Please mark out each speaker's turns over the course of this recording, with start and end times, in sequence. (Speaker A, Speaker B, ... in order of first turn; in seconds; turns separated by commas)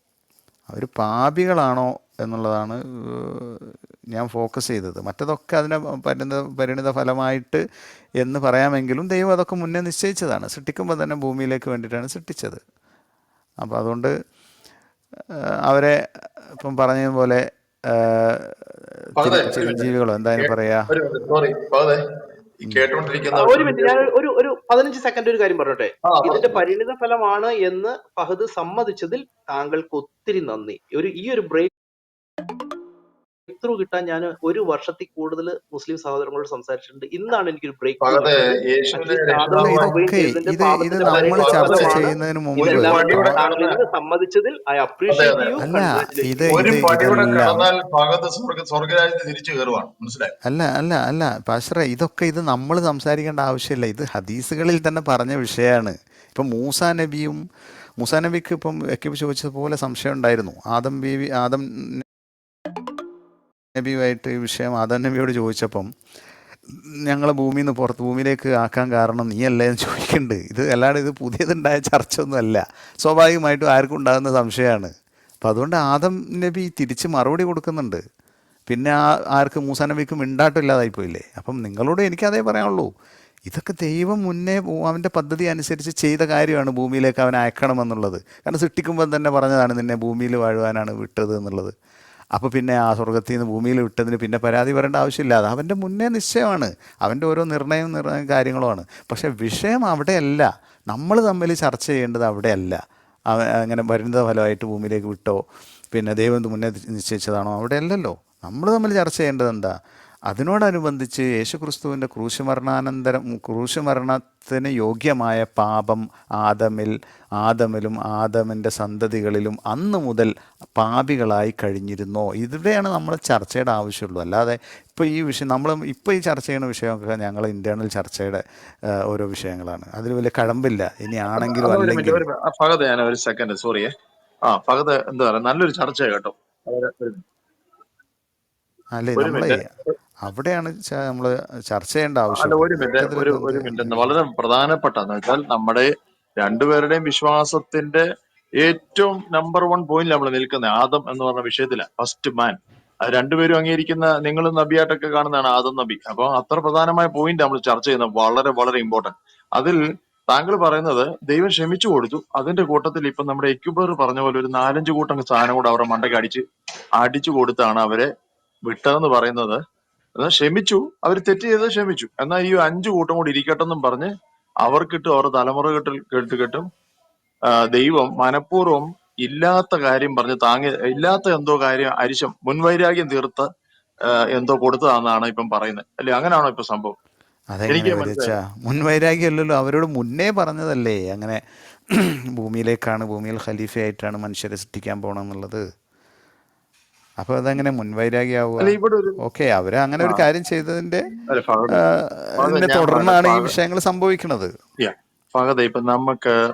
Speaker A: 0.7-7.6, Speaker A: 8.2-12.6, Speaker A: 13.6-14.1, Speaker A: 15.7-16.0, Speaker A: 16.5-20.9, Speaker B: 19.2-22.0, Speaker B: 22.6-24.0, Speaker C: 23.3-31.7, Speaker B: 26.1-26.6, Speaker C: 33.5-46.7, Speaker B: 38.0-39.9, Speaker A: 39.6-43.4, Speaker B: 41.1-42.1, Speaker B: 42.6-43.8, Speaker B: 45.1-45.6, Speaker A: 45.6-47.6, Speaker B: 46.5-50.3, Speaker A: 50.5-57.4, Speaker A: 58.0-62.0, Speaker A: 63.8-65.9, Speaker A: 66.7-74.9, Speaker A: 75.4-78.0, Speaker A: 78.7-82.9, Speaker A: 83.5-91.7, Speaker A: 92.3-102.8, Speaker A: 103.3-105.4, Speaker A: 105.9-109.7, Speaker A: 110.3-128.4, Speaker A: 129.1-132.2, Speaker B: 131.3-133.9, Speaker B: 134.5-137.2, Speaker A: 138.9-139.6, Speaker B: 139.2-139.6, Speaker A: 140.2-144.1, Speaker B: 142.3-148.0, Speaker B: 148.6-166.4, Speaker B: 167.0-168.1, Speaker B: 168.7-169.6, Speaker B: 170.2-174.1, Speaker B: 174.6-176.7, Speaker B: 177.5-183.4, Speaker B: 184.1-186.9, Speaker A: 187.5-191.4, Speaker B: 187.7-188.3, Speaker A: 191.9-195.6, Speaker A: 197.2-201.1, Speaker B: 198.6-199.2, Speaker B: 201.3-201.8, Speaker A: 201.7-204.5, Speaker B: 202.4-203.5, Speaker B: 204.8-206.3